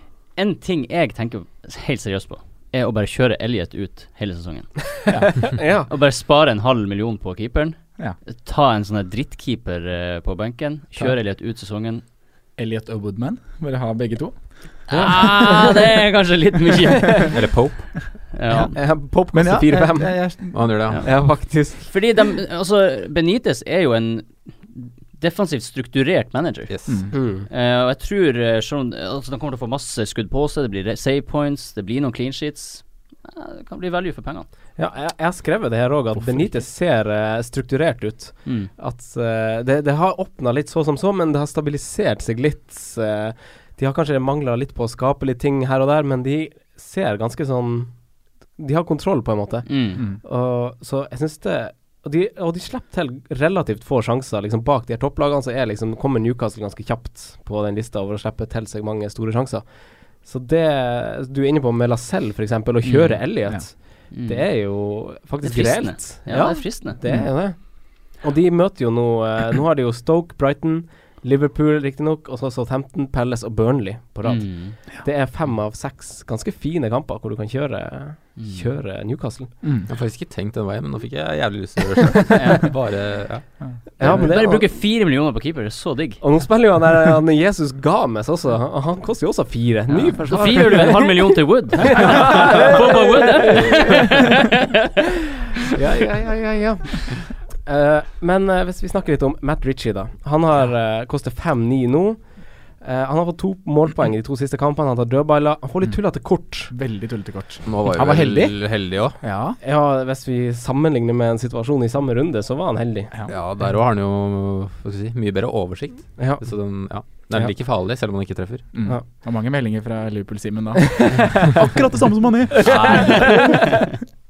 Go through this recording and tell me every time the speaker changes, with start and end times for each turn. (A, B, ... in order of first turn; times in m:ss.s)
0:00.3-0:05.1 A
0:05.1-0:05.4 B
0:05.4-0:05.9 C
0:05.9-0:12.0 A
0:12.6-0:14.4 B
0:14.9-0:17.4 A
0:14.9-0:15.8 C
0:17.3-0:18.1 D
0:18.3-0:18.9 A
0:18.5-0:21.9 C
0:19.3-0:20.9 B
0:20.5-0:21.0 D
0:21.8-0:34.5 A
0:26.7-0:27.0 D
0:26.9-0:27.1 B
0:27.1-0:27.5 C
0:34.8-1:19.5 C
0:38.4-0:38.7 A
0:49.6-0:50.0 A
1:04.1-1:04.8 A
1:05.4-1:07.0 A
1:07.0-1:07.3 B
1:14.2-1:14.8 A
1:18.4-1:18.6 A
1:19.6-1:19.9 B
1:19.9-1:23.5 D
1:22.3-1:22.6 A
1:23.6-1:24.3 B
1:24.0-1:24.7 C
1:24.0-1:26.2 A
1:26.2-1:33.9 C
1:29.9-1:34.4 A
1:35.7-1:46.7 C
1:46.7-1:49.6 B
1:47.6-1:49.2 D
1:49.6-1:53.1 C
1:53.1-1:53.7 B
1:53.3-1:58.8 D
1:56.2-1:57.5 C
1:58.7-2:03.5 B
2:02.6-2:03.2 D
2:02.7-2:03.5 C